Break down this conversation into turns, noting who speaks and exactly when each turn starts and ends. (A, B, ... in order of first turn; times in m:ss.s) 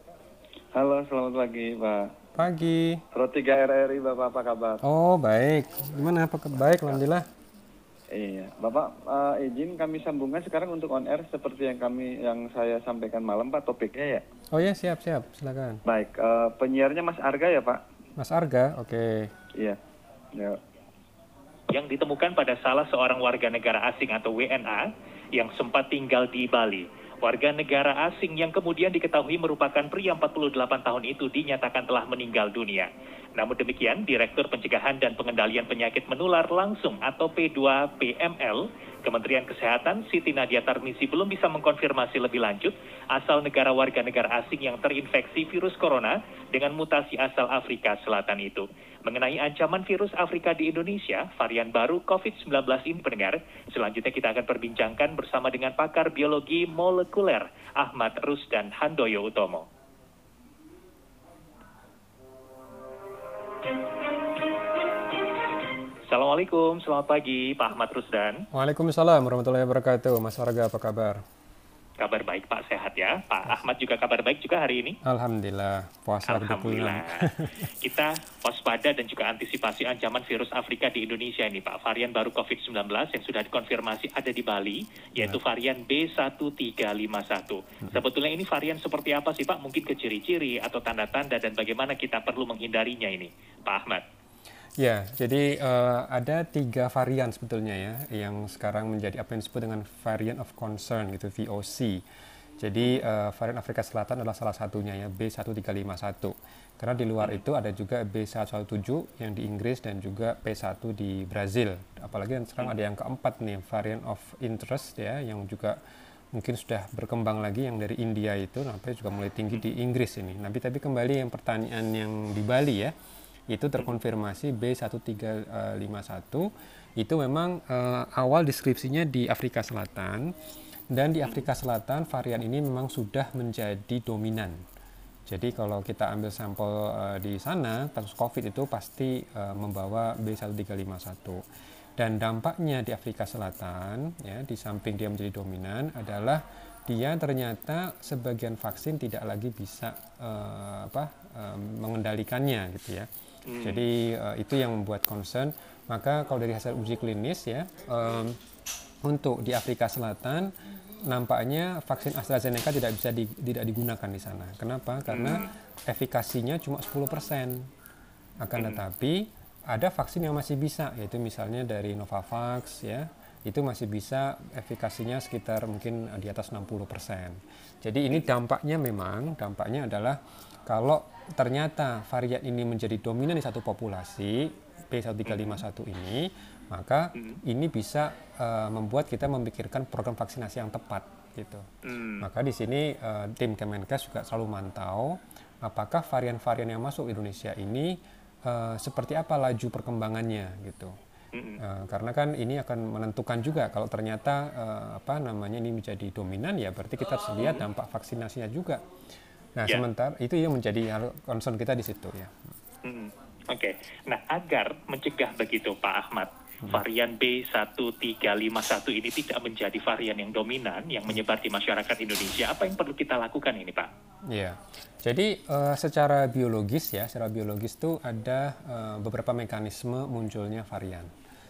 0:00.7-0:02.1 A
0:02.4-0:03.0 B
0:03.1-0:04.8 A
0:04.8-0:07.3 B
0:06.6-0:07.0 A
0:08.1-0:14.2 A
0:14.5-0:15.8 B
0:15.9-0:17.8 A
0:18.2-0:19.3 B
0:20.4-0:20.6 A
0:21.7-0:59.7 C
1:06.1-1:08.4 C
1:08.5-1:11.2 B
1:12.0-1:15.0 C
1:15.0-1:17.7 B
1:16.2-1:34.0 C
1:34.8-1:42.0 B
1:42.6-1:55.8 B
1:56.4-2:02.9 B
2:03.5-2:10.3 B
2:10.9-2:14.6 B
2:15.3-2:21.4 B
2:22.0-2:33.1 B
2:33.5-2:33.8 C
2:33.6-2:38.4 B
2:39.0-2:40.5 B
2:41.1-2:47.7 B
2:45.1-2:45.5 C
2:48.4-3:11.6 B
3:05.3-3:05.6 C
3:07.2-3:07.4 C
3:11.8-3:12.3 C
3:12.2-3:20.9 B
3:21.3-3:21.6 C
3:21.6-3:28.8 B
3:27.4-3:27.6 C
3:29.6-3:32.5 B
3:32.8-3:43.9 C
3:44.3-3:51.1 B